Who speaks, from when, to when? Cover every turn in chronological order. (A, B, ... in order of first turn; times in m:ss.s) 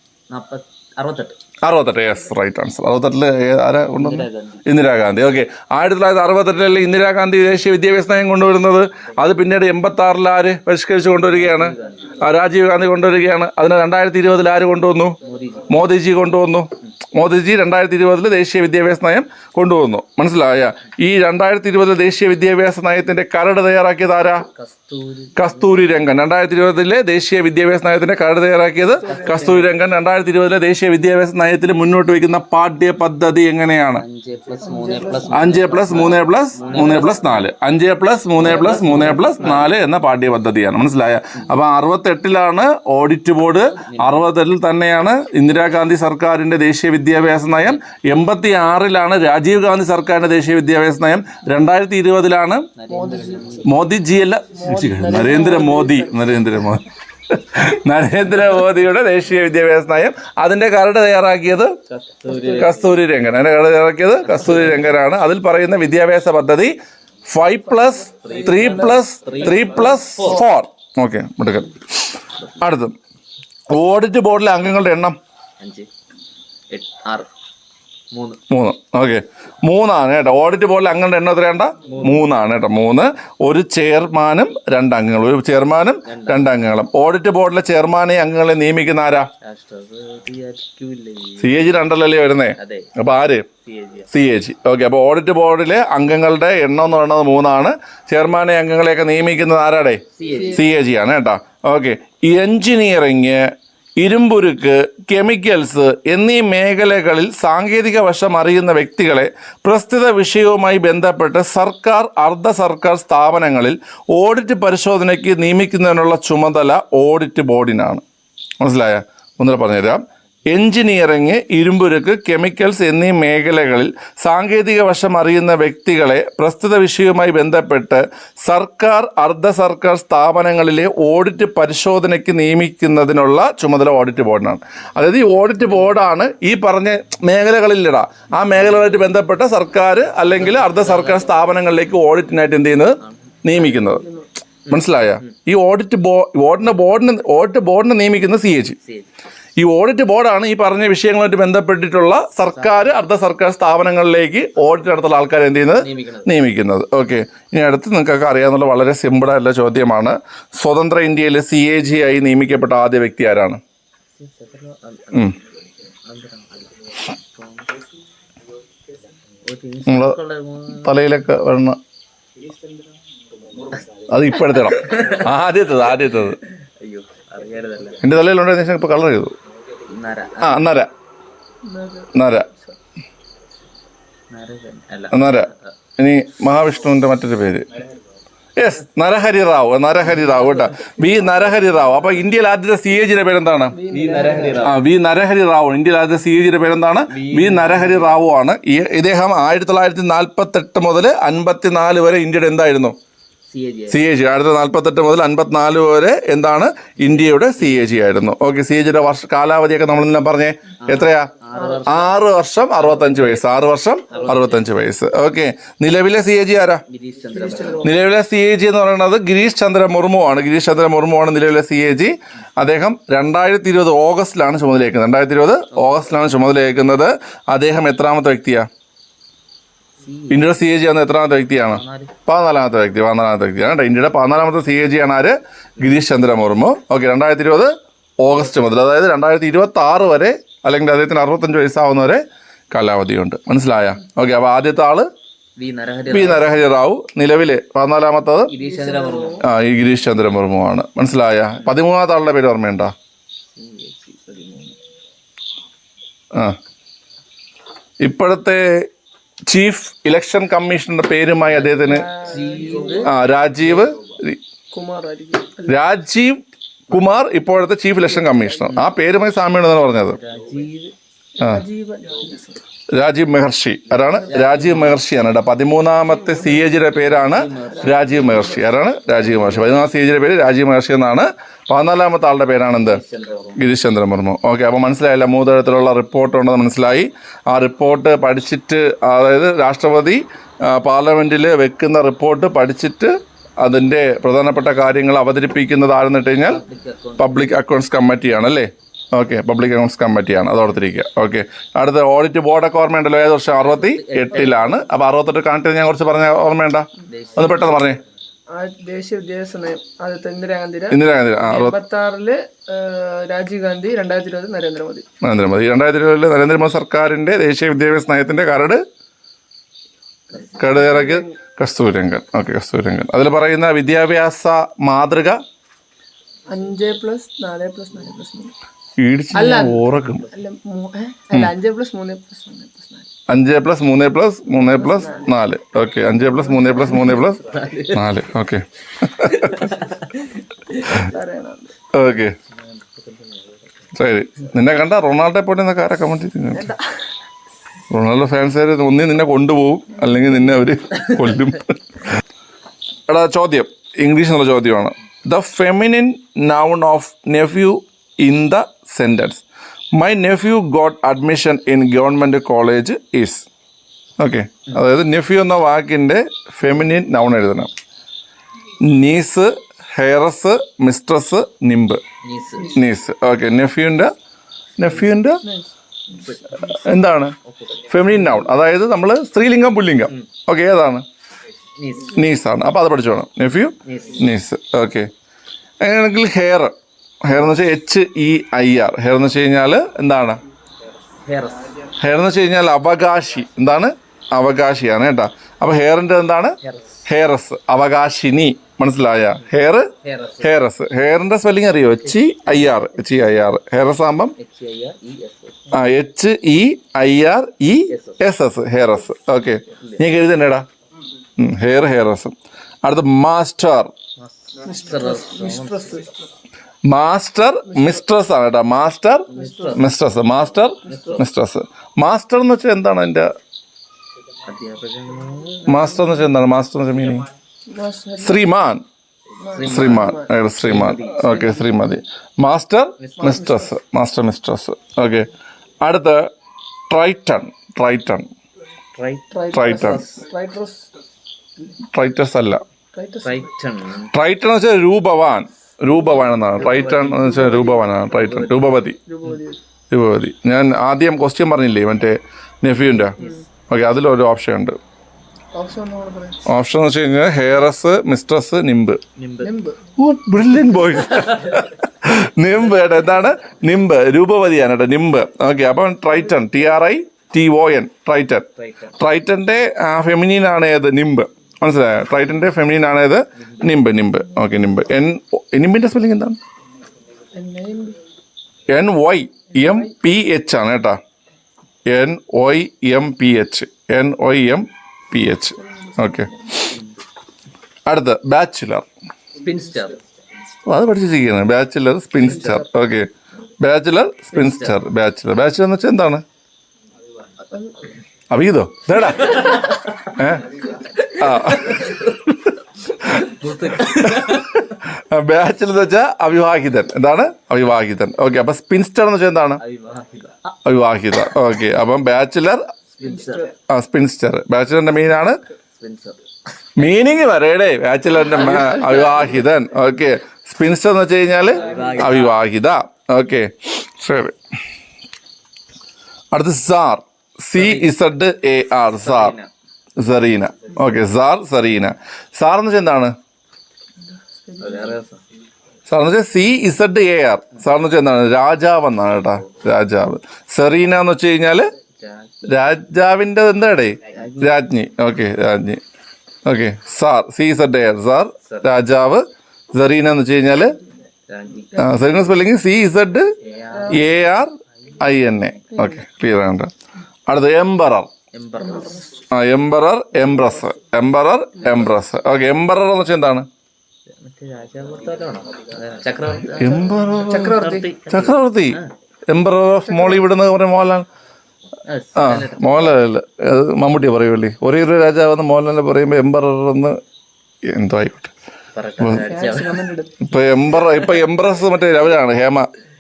0:00.3-0:01.4 A
0:01.6-0:15.2 B
0:03.9-0:04.6 A
0:11.3-0:12.2 A
0:15.2-0:15.8 A
0:15.7-0:24.4 B
0:24.5-0:25.9 A
0:25.4-0:34.0 B
0:29.0-0:29.5 C
0:29.0-0:29.8 A
0:34.0-0:37.4 A
0:34.6-0:35.7 C
0:35.3-0:52.7 B
0:38.4-0:39.7 A
0:43.7-0:44.3 A
0:52.8-0:53.7 A
0:52.9-0:53.6 C
0:53.6-1:01.8 B
0:54.6-0:56.7 C
1:01.9-1:02.9 A
1:02.2-1:02.8 C
1:02.6-1:06.7 B
1:04.2-1:05.0 A
1:07.3-1:13.0 B
1:08.2-1:10.4 A
1:08.2-1:10.4 C
1:13.7-1:15.2 B
1:15.6-1:15.9 A
1:16.7-1:17.3 A
1:18.1-1:18.4 A
1:18.5-1:29.3 B
1:21.8-1:22.2 A
1:26.0-1:26.6 A
1:29.4-1:31.7 A
1:31.4-1:33.5 B
1:32.6-1:32.9 A
1:33.6-1:34.1 A
1:34.1-1:58.0 B
1:40.1-1:40.6 A
1:40.3-1:40.6 C
1:58.6-2:24.0 B
2:18.6-2:18.9 A
2:20.3-2:21.5 A
2:23.0-2:23.3 A
2:23.6-2:24.2 C
2:24.6-2:25.3 A
2:24.7-2:28.8 B
2:28.8-2:29.1 A
2:29.6-2:43.6 B
2:32.5-2:33.0 A
2:35.8-2:36.3 A
2:44.1-2:45.4 A
2:46.0-2:47.8 A
2:49.4-2:51.0 A
2:49.9-2:50.2 B
2:50.7-2:51.8 B
2:54.1-2:56.4 B
2:54.5-2:55.3 A
2:56.6-2:58.0 A
2:58.0-2:59.3 B
2:59.8-3:00.6 A
3:00.4-3:00.9 B
3:01.6-3:02.8 C
3:02.1-3:02.5 B
3:04.3-3:05.5 A
3:05.1-3:07.7 B
3:08.6-3:13.8 B
3:10.1-3:11.0 A
3:13.7-3:14.7 C
3:13.9-3:14.8 A
3:14.6-3:22.9 B
3:17.1-3:18.2 A
3:23.5-3:24.0 A
3:23.9-3:31.3 B
3:30.8-3:32.1 A
3:31.5-3:31.8 C
3:31.8-3:36.8 B
3:32.8-3:33.5 A
3:34.1-3:34.8 A
3:36.9-3:37.9 A
3:37.3-3:37.9 C
3:37.8-3:48.7 B
3:45.7-3:46.1 A
3:50.0-3:50.6 A
3:50.3-4:05.1 B
3:51.6-3:52.1 A
4:05.6-4:06.6 A
4:06.1-4:08.5 B
4:08.5-4:09.4 A
4:08.6-4:09.4 C
4:09.4-4:12.9 B
4:13.5-4:14.8 A
4:18.0-4:18.9 B
4:19.5-4:22.1 B
4:21.5-4:23.1 A
4:21.8-4:23.1 C
4:23.0-4:24.4 B
4:24.7-4:25.7 C
4:25.6-4:30.2 B
4:28.1-4:28.7 C
4:28.7-4:28.9 A
4:30.1-4:30.9 A
4:31.4-4:32.6 C
4:32.9-4:43.0 B
4:34.3-4:35.0 A
4:36.9-4:38.6 A
4:37.7-4:38.4 C
4:39.1-4:39.7 A
4:42.7-4:43.6 A
4:43.6-4:56.6 B
4:56.4-4:57.5 A
4:57.2-5:08.0 B
5:03.6-5:04.8 A
5:07.1-5:07.9 A
5:08.5-5:15.1 C
5:10.9-5:11.8 B
5:15.2-5:18.8 B
5:20.3-5:21.4 C
5:20.6-5:25.4 B
5:26.5-5:28.5 C
5:29.0-5:30.2 B
5:29.3-5:33.1 C
5:33.3-5:39.8 B
5:34.6-5:35.3 C
5:36.3-5:37.2 C
5:37.4-5:38.1 A
5:39.4-5:40.2 A
5:40.8-5:41.1 B
5:41.0-5:41.7 C
5:41.9-5:42.3 B
5:42.0-5:43.9 A
5:43.9-5:46.7 B
5:46.5-5:46.9 C
5:47.9-5:52.1 B
5:53.1-5:59.4 B
5:59.9-6:03.4 B
6:04.2-6:07.7 B
6:08.8-6:12.0 B
6:12.2-6:12.7 A
6:12.7-6:14.1 B
6:14.8-6:15.4 B
6:15.4-6:15.7 C
6:16.2-6:16.6 A
6:16.6-6:17.3 B
6:17.4-6:18.0 A
6:17.9-6:21.0 B
6:21.8-6:22.2 A
6:22.1-6:25.1 B
6:23.8-6:24.3 A
6:25.8-6:30.4 B
6:31.2-6:31.9 A
6:32.0-6:44.3 B
6:36.6-6:37.0 A
6:40.0-6:40.5 A
6:44.4-6:45.8 A
6:45.7-6:50.6 B
6:47.9-6:48.2 A
6:49.7-6:50.0 A
6:51.4-6:53.9 B
6:54.2-6:56.1 A
6:54.6-6:56.1 C
6:56.8-7:03.3 B
6:57.7-6:58.0 C
6:59.3-6:59.9 A
6:59.3-6:59.8 C
7:00.8-7:01.2 A
7:04.4-7:06.1 A
7:05.6-7:07.2 B
7:07.7-7:08.4 C
7:08.2-7:08.8 B
7:09.4-7:11.6 A
7:09.4-7:10.3 C
7:09.6-7:16.3 B
7:13.0-7:13.4 A
7:13.2-7:13.7 C
7:16.9-7:18.3 B
7:18.9-7:20.2 A
7:19.3-7:20.9 C
7:19.5-7:20.0 B
7:21.9-7:22.6 B
7:22.9-7:23.5 C
7:23.2-7:24.1 A
7:24.1-7:29.0 B
7:26.5-7:28.7 A
7:27.1-7:27.8 C
7:29.0-7:29.6 C
7:29.9-7:33.2 B
7:33.2-7:33.4 C
7:33.7-7:34.8 B
7:35.5-7:36.4 C
7:36.4-7:39.0 B
7:39.2-7:39.5 A
7:39.4-7:39.8 C
7:40.0-7:56.4 B
7:46.3-7:46.6 C
7:48.6-7:48.9 A
7:53.4-7:53.7 A
7:57.3-7:58.0 C
7:58.7-8:01.0 B
7:59.6-7:59.9 C
8:01.9-8:06.8 B
8:05.8-8:06.4 C
8:07.8-8:08.8 B
8:09.4-8:10.0 A
8:10.6-8:16.2 B
8:12.2-8:12.6 A
8:14.3-8:14.8 A
8:18.3-8:29.6 B
8:19.1-8:19.8 A
8:21.4-8:22.1 A
8:23.1-8:24.6 A
8:29.6-8:30.6 A
8:30.6-8:32.7 B
8:33.0-8:33.5 A
8:33.1-8:33.5 C
8:33.7-8:35.4 B
8:35.7-8:36.2 A
8:36.8-8:44.4 B
8:38.3-8:39.3 A
8:41.6-8:42.4 A
8:46.3-8:49.4 B
8:47.6-8:47.9 A
8:49.0-8:49.5 A
8:50.0-8:53.1 B
8:54.0-8:55.0 C
8:54.6-8:55.2 A
8:55.9-9:01.7 B
9:01.8-9:02.3 A
9:02.4-9:05.8 B
9:04.1-9:04.5 A
9:06.4-9:10.8 B
9:11.3-9:11.8 A
9:11.8-9:13.3 B
9:13.4-9:14.2 A
9:13.7-9:14.0 C
9:13.9-9:16.7 B
9:14.8-9:15.5 A
9:15.7-9:16.0 C
9:17.3-9:18.1 B
9:18.3-9:19.1 A
9:18.6-9:19.2 C
9:19.3-9:23.5 B
9:24.1-9:28.9 A
9:26.6-9:31.0 B
9:26.7-9:27.9 C
9:29.9-9:30.2 C
9:31.8-9:33.0 A
9:32.2-9:37.0 B
9:37.6-9:38.3 B
9:38.7-9:39.9 A
9:39.0-9:39.3 B
9:39.2-9:40.2 C
9:40.2-9:42.7 B